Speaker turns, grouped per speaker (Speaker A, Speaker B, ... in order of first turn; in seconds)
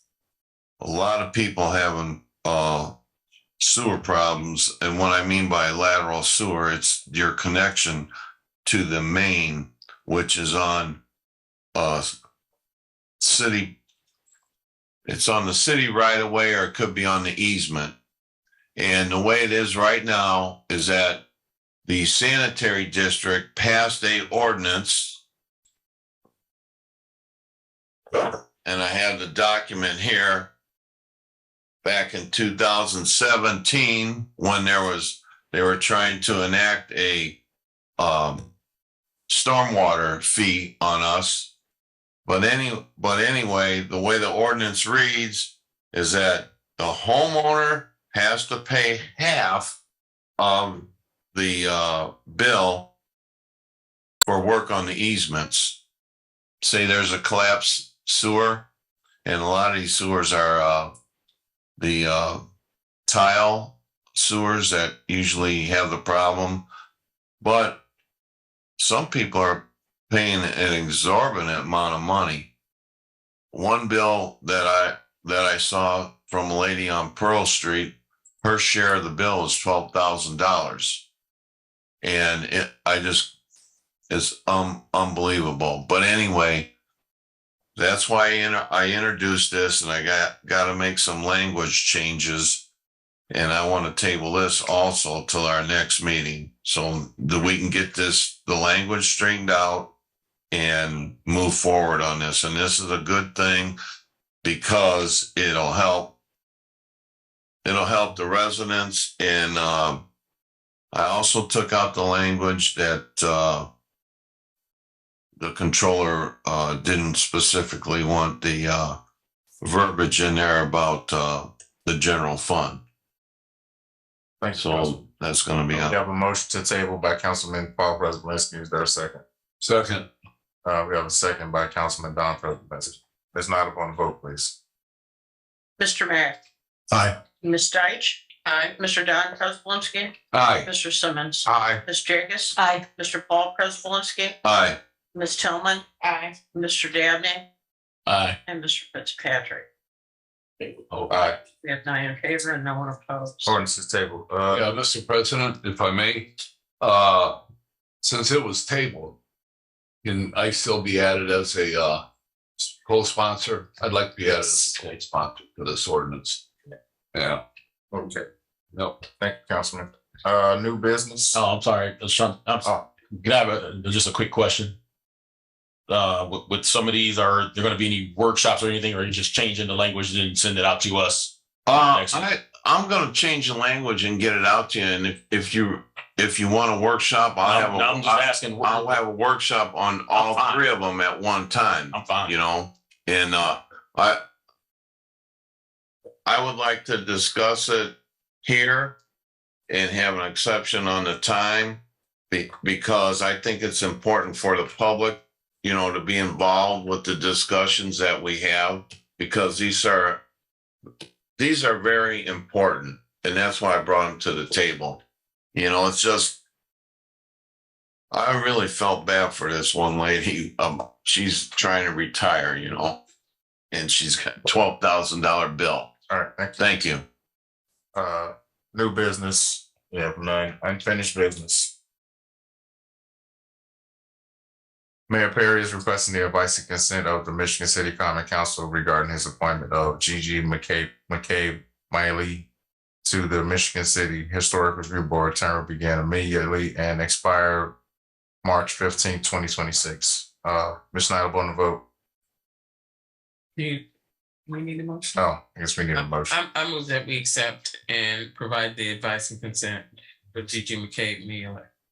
Speaker A: 0.8-2.9, 3.6-8.1, 8.7-11.0, 11.8-12.1, 13.2-13.8, 15.1-17.9, 18.8-21.2, 21.9-25.2, 28.1-30.5, 31.8-37.4, 38.0-38.5, 39.3-41.5, 42.3-49.8, 50.4-52.9, 54.2-55.8, 56.6-58.7, 59.2-60.9, 61.8-62.4, 63.1-66.6, 67.4-67.8, 68.8-72.5, 73.5-81.0, 82.0-83.3, 84.1-86.7, 87.8-92.6, 93.3-99.9, 100.5-103.8, 104.4-106.2, 107.7-110.0, 110.9-113.7, 115.4-119.0, 119.6-122.8, 124.6-126.0, 144.4-144.8, 181.7-194.2, 196.3-199.0, 199.7-210.2, 211.4-215.0, 215.5-216.4, 218.1-223.0, 223.7-225.9, 226.6-227.1
Speaker B: 124.4-125.0, 125.7-129.2, 130.7-134.5, 141.5-141.8, 151.1-151.4, 153.5-154.7, 167.9-168.2, 169.2-171.4, 226.1-226.6, 227.9-231.7, 235.1-242.5, 243.0-247.7, 248.4-251.8, 255.2-256.4
Speaker C: 129.6-130.1, 140.3-140.7, 150.9-151.3, 154.5-157.4, 158.0-159.2, 160.0-162.1, 162.6-166.4, 167.1-167.4, 168.7-169.0
Speaker D: 135.8-136.4, 137.4-144.4, 145.2-145.9, 146.4-147.4, 148.5-149.7, 151.6-153.5
Speaker E: 138.4-138.8, 253.6-253.8, 254.5-255.2, 255.9-261.6
Speaker F: 148.1-148.4, 171.3-174.8, 175.9-182.3, 187.4-189.0, 190.1-190.6, 191.9-192.4